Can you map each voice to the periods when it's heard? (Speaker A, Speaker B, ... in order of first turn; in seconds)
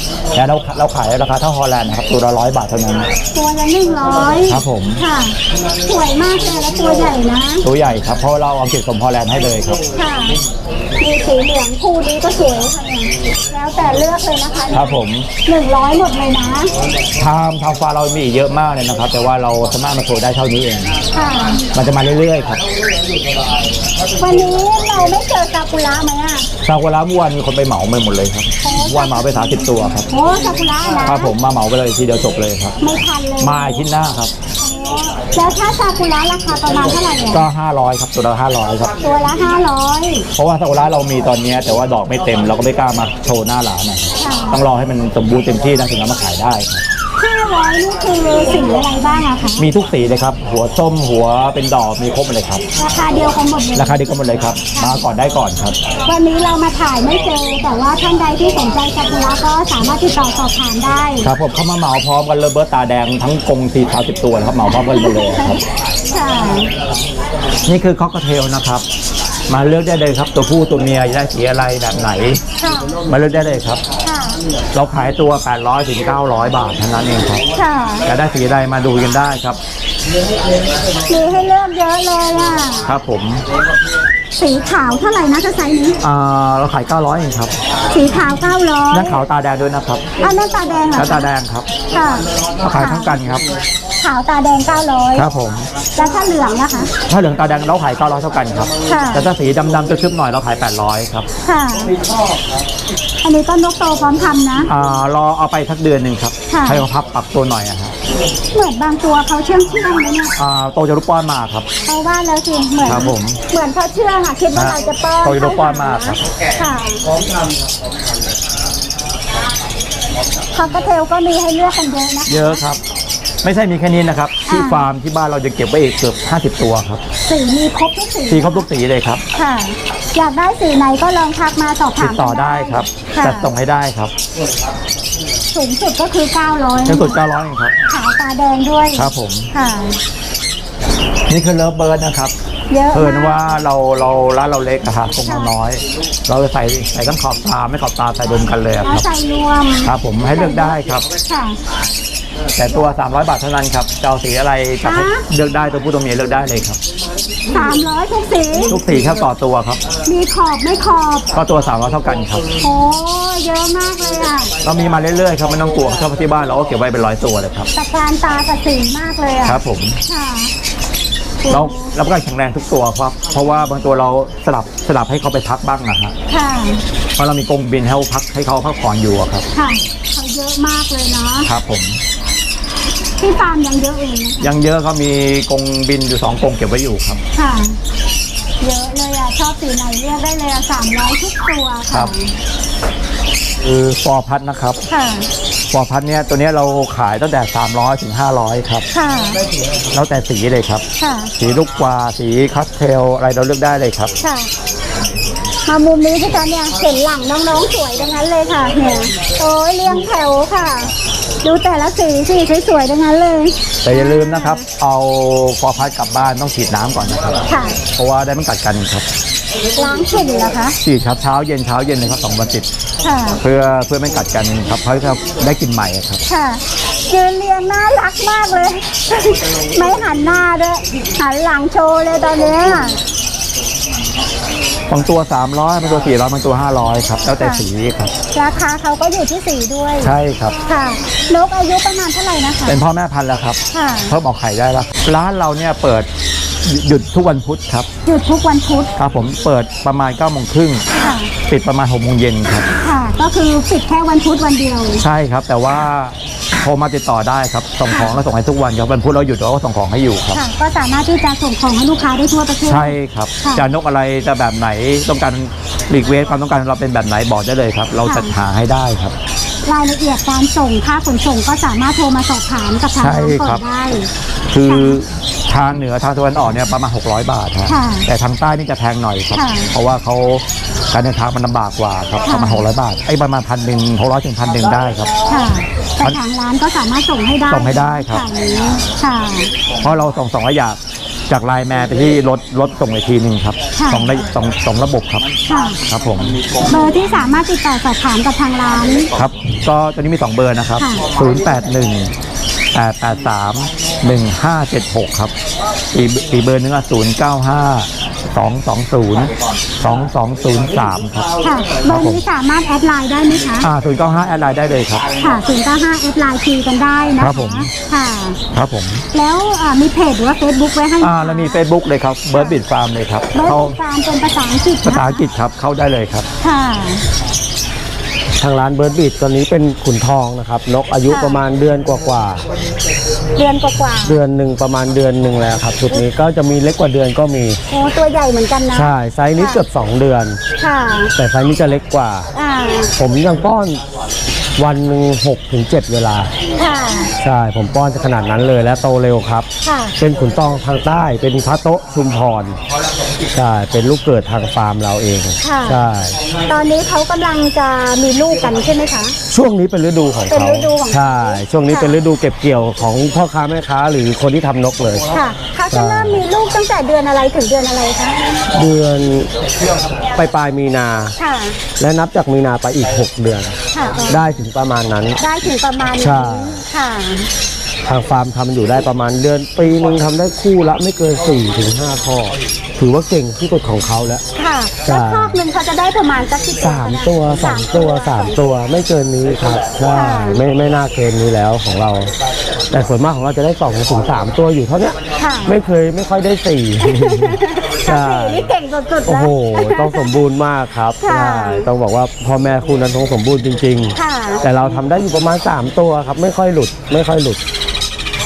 Speaker A: 0.3-3.1, 4.5-5.0, 7.6-9.8, 14.7-15.3, 17.2-21.0, 21.7-22.6, 26.6-30.1, 31.0-32.8, 33.4-34.3, 37.3-38.9, 40.4-46.8, 49.6-52.6, 53.7-55.8, 61.2-65.6, 67.7-68.8, 69.5-72.4, 73.1-73.8, 74.7-77.4, 78.0-79.6, 82.8-83.4, 86.0-87.5, 88.9-90.0, 91.0-91.7, 92.6-93.4, 95.1-95.7, 97.1-101.3, 104.7-107.9, 110.4-111.7, 112.8-113.4, 114.5-116.2, 122.3-122.8, 123.4-127.0, 128.3-129.2, 132.0-134.1, 136.8-137.7, 138.9-139.5, 141.3-142.3, 142.9-149.1, 149.8-151.1, 152.5-156.8, 158.7-159.8, 161.3-162.4, 164.6-167.7, 169.4-170.0, 171.5-176.1, 177.2-179.4, 181.4-182.0, 184.4-187.2, 193.6-194.8, 195.7-198.8, 199.9-200.8, 201.4-204.1, 213.8-217.4, 217.9-219.1, 220.8-222.7, 223.4-226.2, 234.9-238.1, 240.0-240.6, 242.7-246.1, 246.6-247.9, 249.0-250.8, 251.5-252.7, 255.0-260.4, 262.6-269.1, 273.0-273.6, 274.5-285.1, 287.5-288.2, 289.8-295.3, 295.8-296.5, 299.1-302.1, 302.7-305.3, 305.9-311.3, 311.8-312.2, 313.6-315.1, 317.2-317.7, 318.5-319.0, 321.0-323.8, 324.8-326.3
Speaker B: 3.3-7.6, 9.9-10.4, 11.0-16.7, 21.1-21.6, 24.2-26.5, 28.6-31.3, 32.8-33.8, 34.6-37.4, 39.0-40.2, 44.2-44.6, 47.2-49.6, 52.8-54.0, 54.7-55.0, 56.0-61.3, 64.7-66.7, 72.6-73.0, 74.0-74.4, 77.5-78.0, 81.1-82.9, 84.4-86.0, 87.9-89.2, 90.2-91.3, 91.9-93.2, 94.0-95.3, 96.0-96.9, 98.8-99.3, 101.4-101.9, 103.2-104.7, 106.5-106.8, 108.5-110.3, 111.8-117.0, 120.5-122.6, 124.5-124.8, 127.2-128.7, 129.3-133.5, 135.5-137.2, 137.9-140.0, 142.7-143.4, 145.2-145.5, 148.8-151.6, 154.8-155.2, 157.5-158.8, 160.1-161.3, 162.6-164.5, 167.8-170.5, 171.4-171.9, 176.3-176.8, 179.5-181.5, 183.2-184.5, 187.3-187.8, 188.6-192.3, 194.9-195.3, 198.9-199.4, 201.0-201.3, 204.2-204.5, 205.7-214.6, 217.5-217.8, 219.8-220.8, 223.0-223.4, 226.3-233.0, 237.4-237.6, 238.3-240.1, 240.7-242.8, 243.7-244.1, 248.0-248.9, 251.0-251.3, 252.8-255.0, 257.9-258.2, 260.3-263.7, 268.1-268.3, 269.6-274.1, 274.7-275.0, 277.7-278.1, 279.3-279.7, 282.2-282.6, 285.3-289.5, 293.8-294.1, 295.5-295.8, 296.6-299.1, 300.8-301.1, 311.4-313.7, 315.2-318.4, 319.1-321.6, 323.3-325.2, 326.4-327.0, 331.1-331.4, 333.4-334.2, 337.7-339.6, 340.6-341.1, 342.3-342.9, 346.6-347.1, 349.6-349.9, 355.4-355.8, 356.5-359.1, 360.3-361.9, 365.1-368.2, 371.2-371.6, 373.7-374.2, 375.2-377.3, 384.3-388.3, 389.9-390.4, 395.2-395.5, 396.8-400.2, 401.0-401.7, 403.9-404.4
Speaker C: 328.4-332.4, 334.0-337.6, 338.7-340.4, 341.1-342.3, 342.9-343.8, 344.6-346.3, 347.2-349.5, 350.0-352.6, 353.3-356.2, 359.3-365.1, 365.7-366.2, 368.5-369.3, 370.2-371.1, 371.8-373.5, 374.1-375.2, 376.0-376.6, 377.9-384.2, 384.9-385.4, 386.6-392.1, 392.7-398.5, 399.1-407.4